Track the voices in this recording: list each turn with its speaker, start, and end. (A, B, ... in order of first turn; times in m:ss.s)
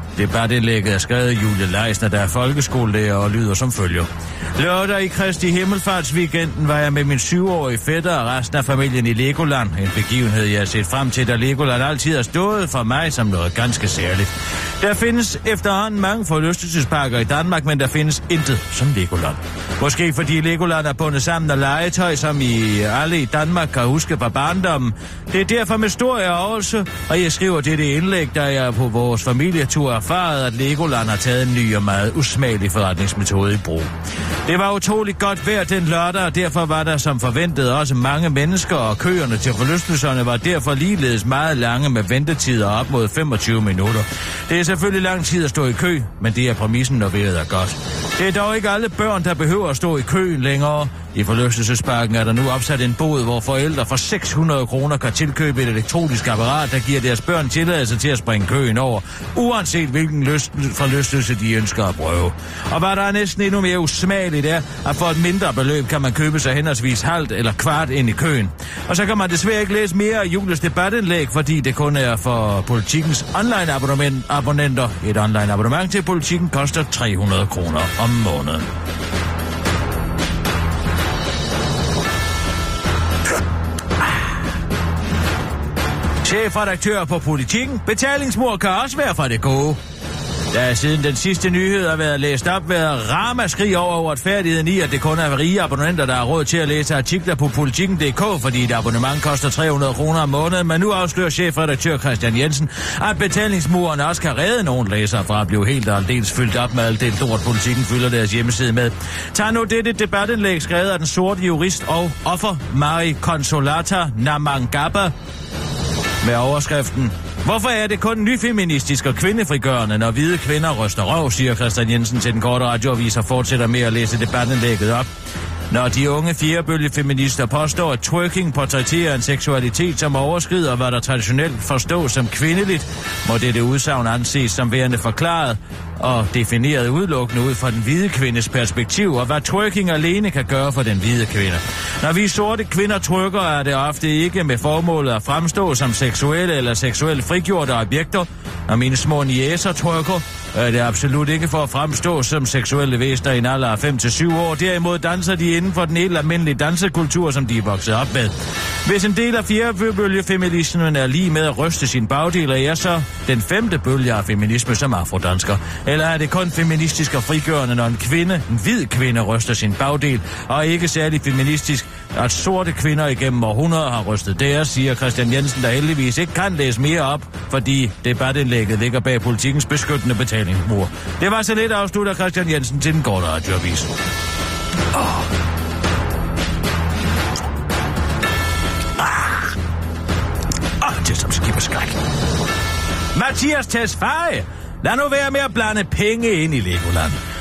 0:00.2-0:33.9 A
0:34.4-1:18.7 A
1:26.2-1:29.8 A
1:30.5-1:55.1 A
1:56.2-2:05.1 A
2:05.7-3:03.9 A
3:04.9-3:05.3 A
3:09.0-3:09.5 A
3:10.8-3:12.0 A
3:13.1-3:17.2 A